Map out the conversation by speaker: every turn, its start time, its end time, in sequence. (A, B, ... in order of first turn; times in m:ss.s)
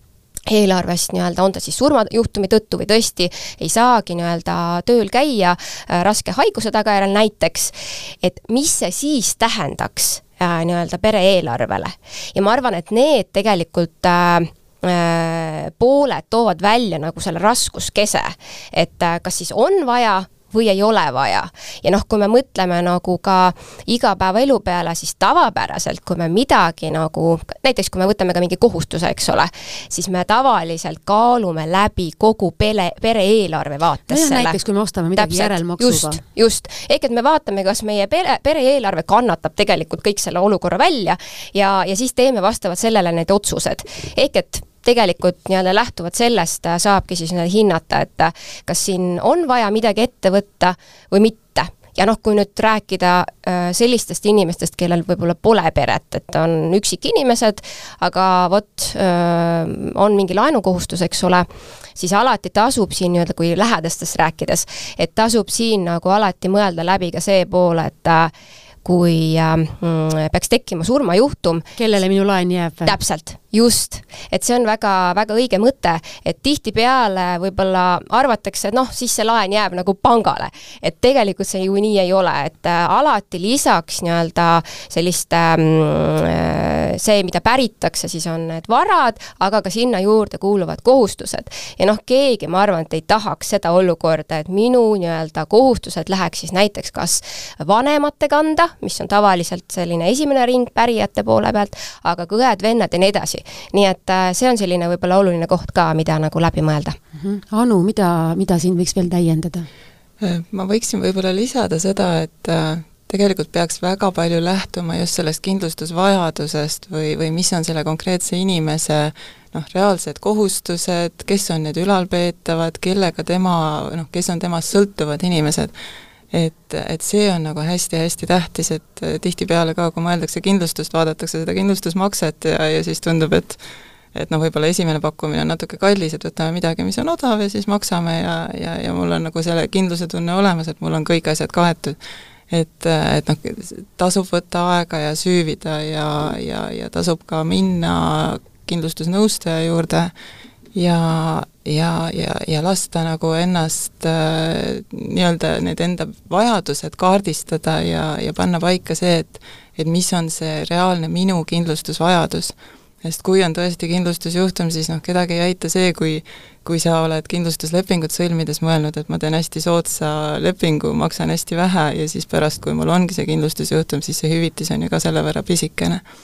0:00.5-0:34.6 A
0:34.1-0:36.2 B
0:35.2-1:08.3 A
1:08.8-1:11.7 A
1:11.8-1:13.0 B
1:12.8-1:47.0 A
1:47.2-1:49.7 B
1:50.2-2:05.7 C
2:06.3-2:13.6 C
2:14.1-2:22.0 C
2:22.5-2:30.1 C
2:30.7-2:56.0 C